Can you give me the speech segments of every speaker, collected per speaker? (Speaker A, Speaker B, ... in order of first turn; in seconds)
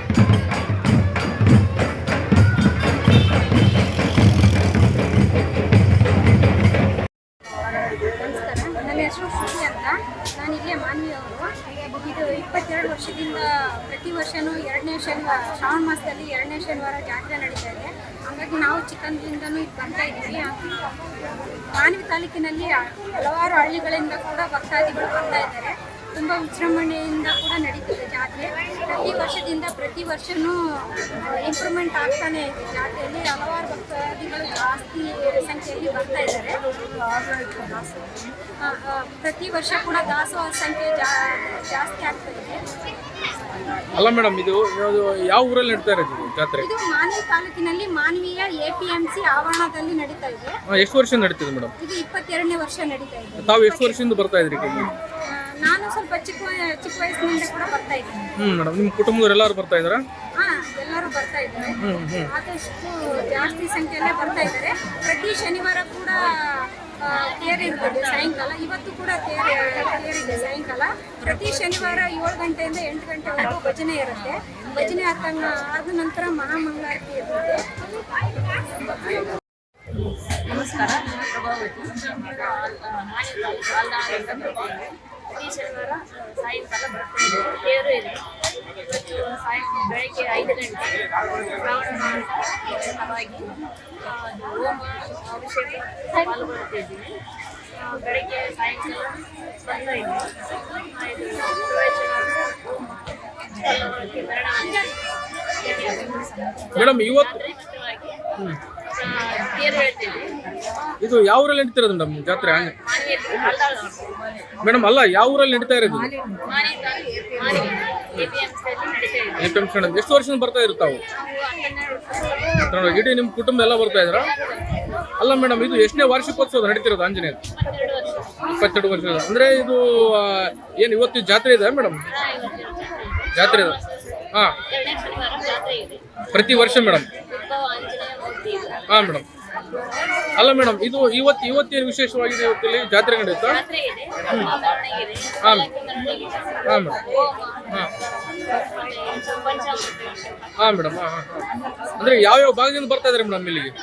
Speaker A: 8.0-20.9, 21.7-36.6, 38.6-42.6, 46.6-50.6, 51.8-54.0, 55.2-58.3, 60.4-77.8
Speaker B: 43.9-46.7, 50.7-51.7, 53.4-54.9, 58.4-60.0, 61.8-62.3, 106.8-107.5, 111.0-112.8, 114.6-116.1, 119.4-121.0, 122.7-124.3, 125.2-127.4, 128.5-132.0, 133.3-133.8, 134.3-134.6, 136.3-137.1, 138.9-139.2, 140.4-143.6, 145.4-145.7, 146.7-147.0, 150.6-151.4, 152.0-153.7
Speaker C: 80.4-88.2, 88.8-93.5, 94.0-97.2, 97.7-102.6, 103.5-105.0, 105.6-108.2, 109.0-110.3, 112.6-114.1, 116.4-119.5, 121.1-122.7, 124.3-124.8, 127.5-128.5, 132.1-136.2, 137.1-138.8, 143.4-150.5